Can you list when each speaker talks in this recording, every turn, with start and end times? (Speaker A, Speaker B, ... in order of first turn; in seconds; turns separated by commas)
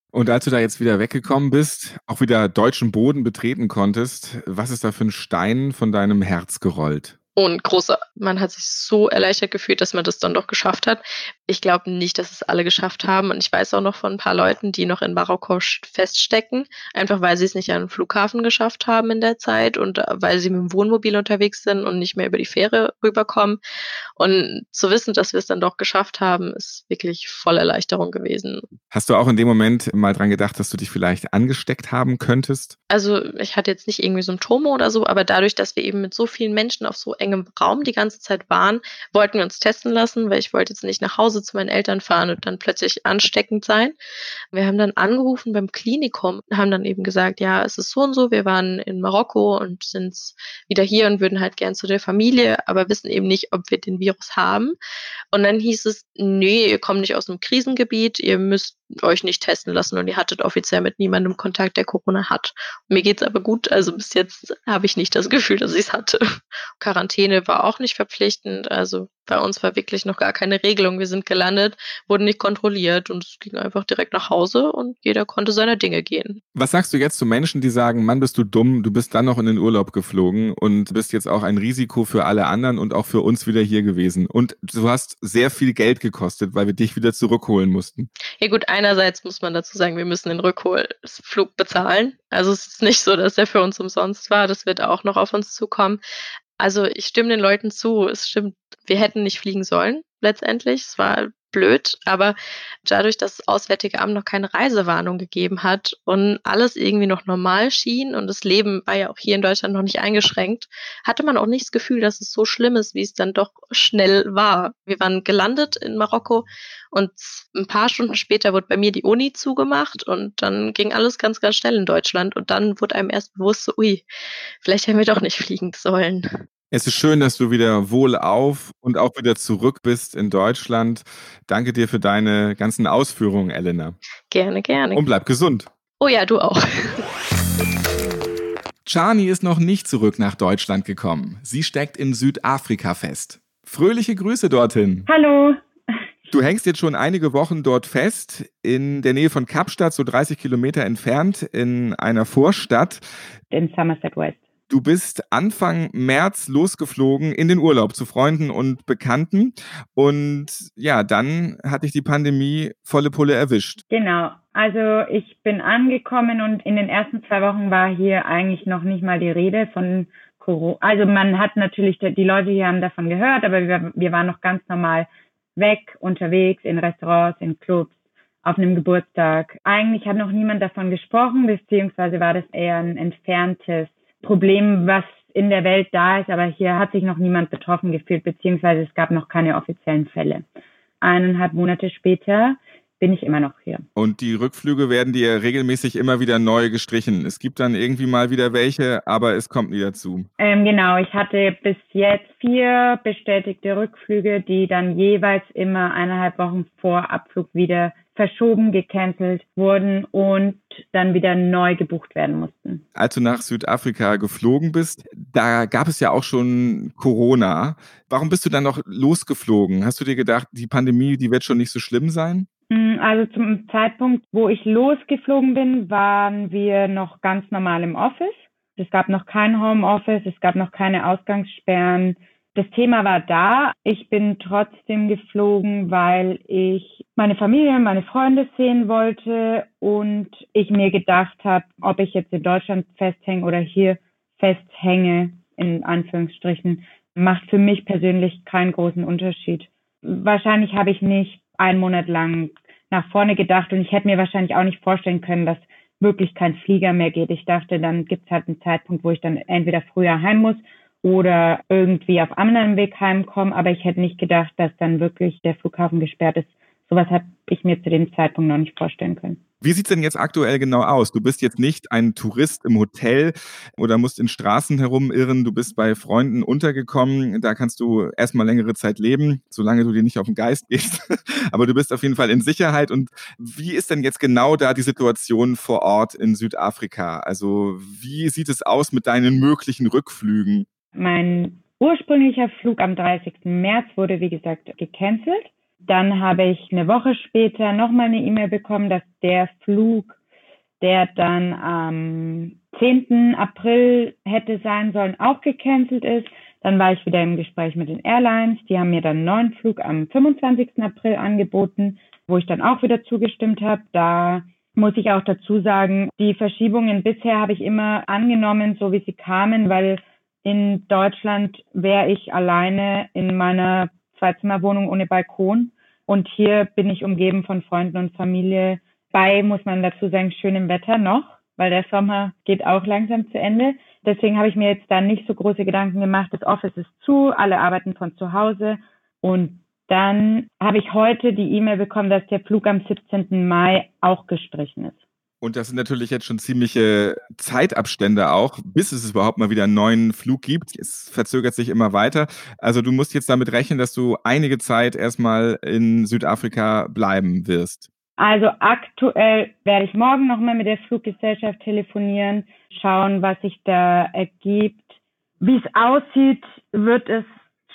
Speaker A: 0.1-7.1, Speaker B: 7.3-23.6, Speaker B: 24.2-28.6, Speaker A: 28.9-32.8, Speaker B: 32.9-43.9, Speaker B: 44.5-54.8, Speaker B: 55.3-66.2, Speaker B: 66.8-76.4, Speaker A: 76.5-88.1, Speaker B: 88.4-96.0, Speaker B: 96.6-124.0, Speaker B: 124.6-126.2, Speaker A: 126.7-133.9, Speaker B: 134.3-135.0, Speaker A: 134.9-135.7, Speaker B: 136.0-137.0, Speaker A: 138.8-145.1, Speaker C: 145.1-145.6, Speaker A: 146.3-153.0, Speaker C: 153.5-154.4, Speaker A: 154.7-163.8, Speaker C: 163.9-190.4, Speaker C: 191.0-193.8, Speaker A: 193.9-200.3, Speaker C: 200.4-212.8, Speaker A: 212.9-222.5, Speaker C: 222.7-269.4, Speaker A: 269.6-290.6, Speaker C: 290.9-300.1, Speaker C: 300.8-345.0, Speaker A: 345.4-357.9, Speaker C: 358.2-364.9, Speaker C: 365.4-367.3